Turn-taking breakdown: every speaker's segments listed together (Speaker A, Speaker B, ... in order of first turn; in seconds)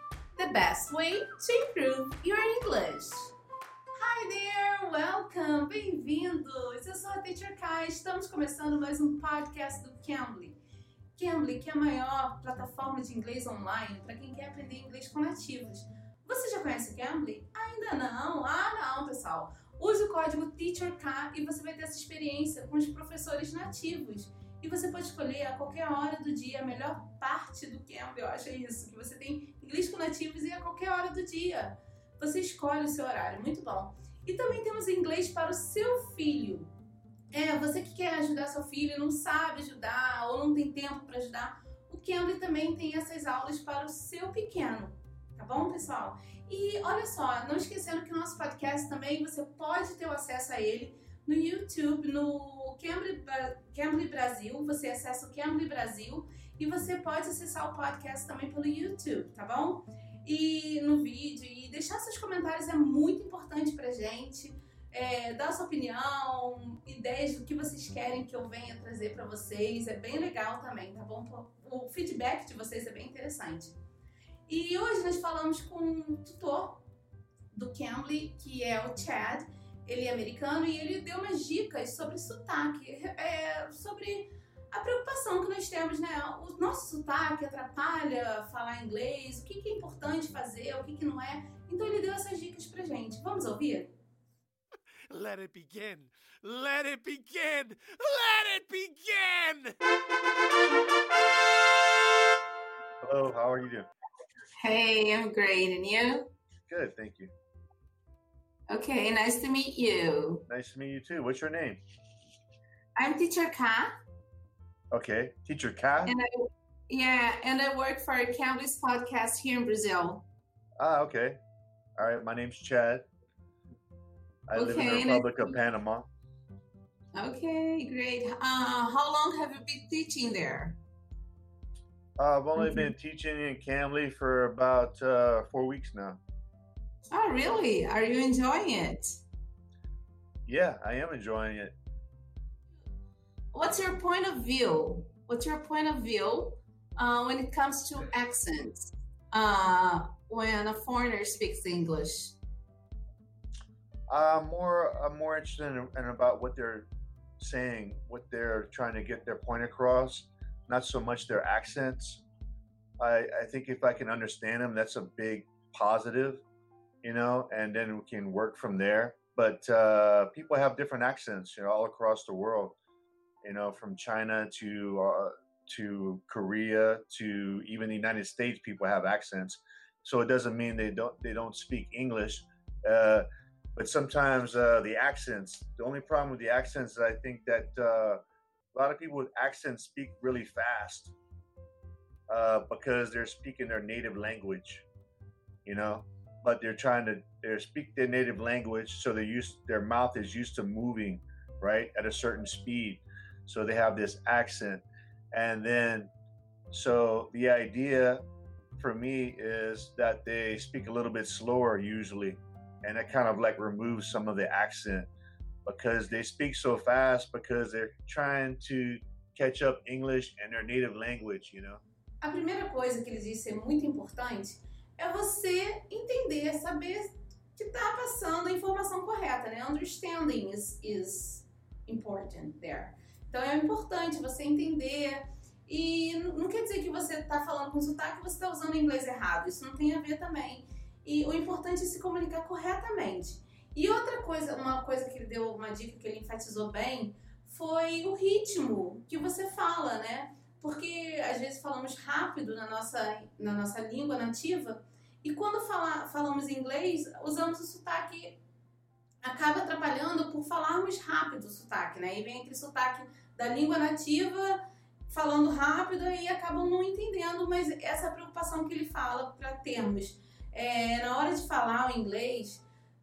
Speaker A: 0.3-3.3, 3.9-10.6, 11.1-36.7, 37.3-73.7, 74.5-76.8, 77.5-93.9, 104.6-106.3, 108.7-110.4, 113.0-113.9, 116.0-120.2, 124.5-125.6, 127.1-130.8, 132.6-132.9, 137.1-139.2, 143.5-152.3, 222.2-258.4, 259.2-272.6
Speaker B: 95.1-99.8
Speaker C: 103.0-103.9, 106.7-107.3, 110.5-111.8, 114.9-116.1, 120.8-121.4, 122.0-123.1, 124.5-126.1, 132.2-136.2, 140.5-141.7, 154.1-156.9, 157.4-162.2, 163.0-166.4, 167.0-172.8, 173.4-188.2, 188.7-191.1, 192.3-194.8, 195.6-206.1, 206.7-208.2, 208.8-215.1, 215.7-221.8